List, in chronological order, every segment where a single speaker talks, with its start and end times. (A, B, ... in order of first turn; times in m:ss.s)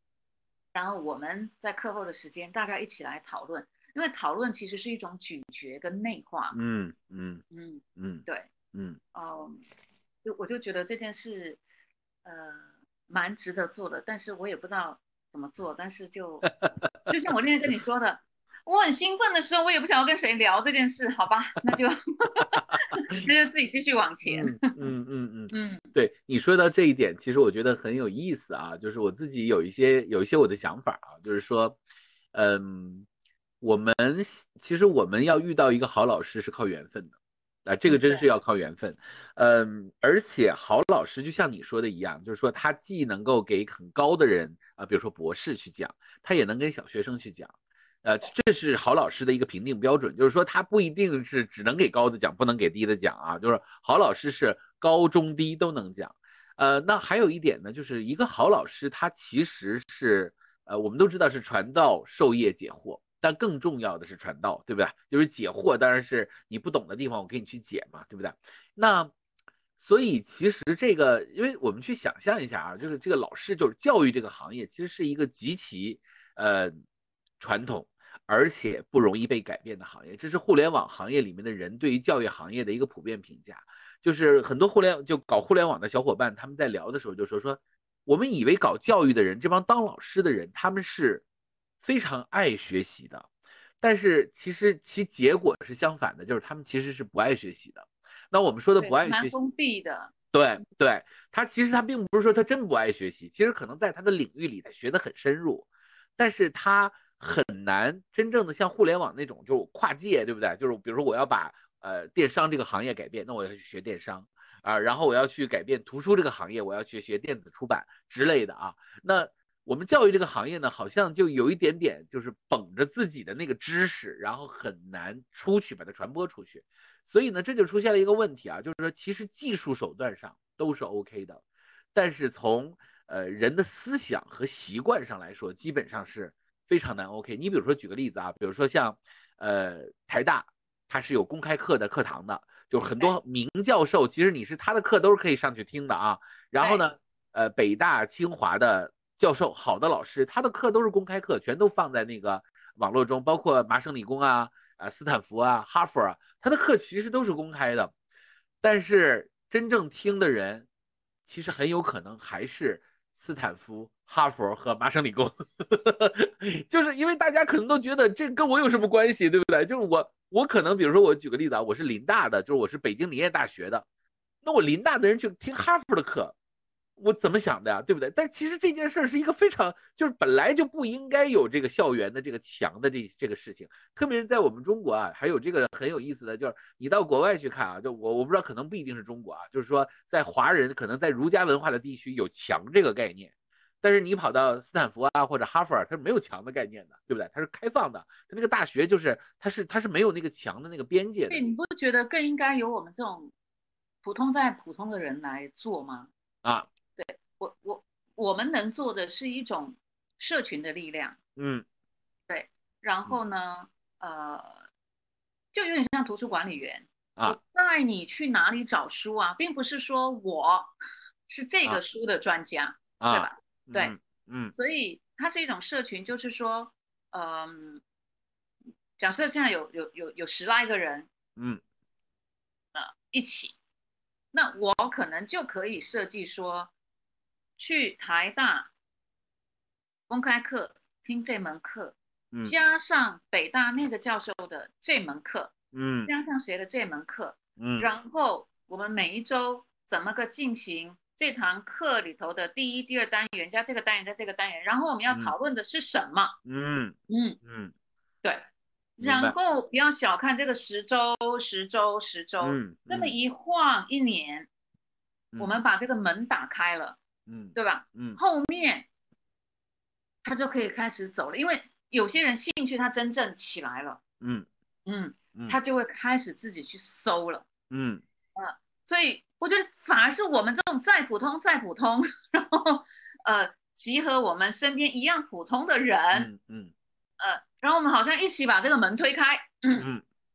0:00.7-0:06.6 A
0:06.5-0:07.4 B
0:07.5-0:08.5 A
0:08.0-0:09.0 B
0:09.1-0:09.6 A
0:10.2-0:11.6 A
0:12.2-0:16.5 A
0:16.4-0:17.1 B
0:17.1-0:24.8 A
0:24.2-0:31.8 B
0:25.5-0:25.9 A
0:32.3-0:33.1 B
0:33.6-0:37.1 B
0:37.6-1:09.1 B
0:37.8-0:38.2 A
1:09.8-1:16.7 B
1:17.4-1:31.2 B
1:31.8-1:33.3 B
1:33.8-1:39.4 B
1:38.8-1:40.1 A
1:40.3-2:11.4 B
2:11.9-2:37.9 B
2:38.6-2:40.7 B
2:41.3-2:53.8 B
2:54.4-2:56.3 B
2:57.0-3:21.4 B
3:21.3-3:23.3 A
3:24.0-3:26.1 A
3:27.0-3:31.2 A
3:31.4-3:31.6 B
3:32.3-3:34.7 A
3:35.5-3:40.7 A
3:41.3-3:43.9 A
3:43.0-3:44.5 B
3:44.5-3:47.8 A
3:49.0-3:51.1 A
3:52.7-3:53.6 A
3:54.3-3:56.7 A
3:57.6-3:58.7 A
4:00.1-4:05.5 A
4:05.7-4:06.1 B
4:06.0-4:16.4 A
4:07.6-4:07.9 B
4:15.1-4:15.3 B
4:16.4-4:17.7 B
4:17.1-4:17.4 A
4:18.2-4:24.5 A
4:19.0-4:19.3 B
4:22.4-4:23.2 B
4:25.4-4:27.0 A
4:27.3-4:28.2 B
4:27.5-4:28.9 A
4:30.2-4:34.0 A
4:34.2-4:34.5 B
4:34.8-4:37.4 A
4:37.7-4:38.0 B
4:38.4-4:46.3 A
4:46.1-4:46.7 B
4:47.2-4:49.9 A
4:49.8-4:50.0 B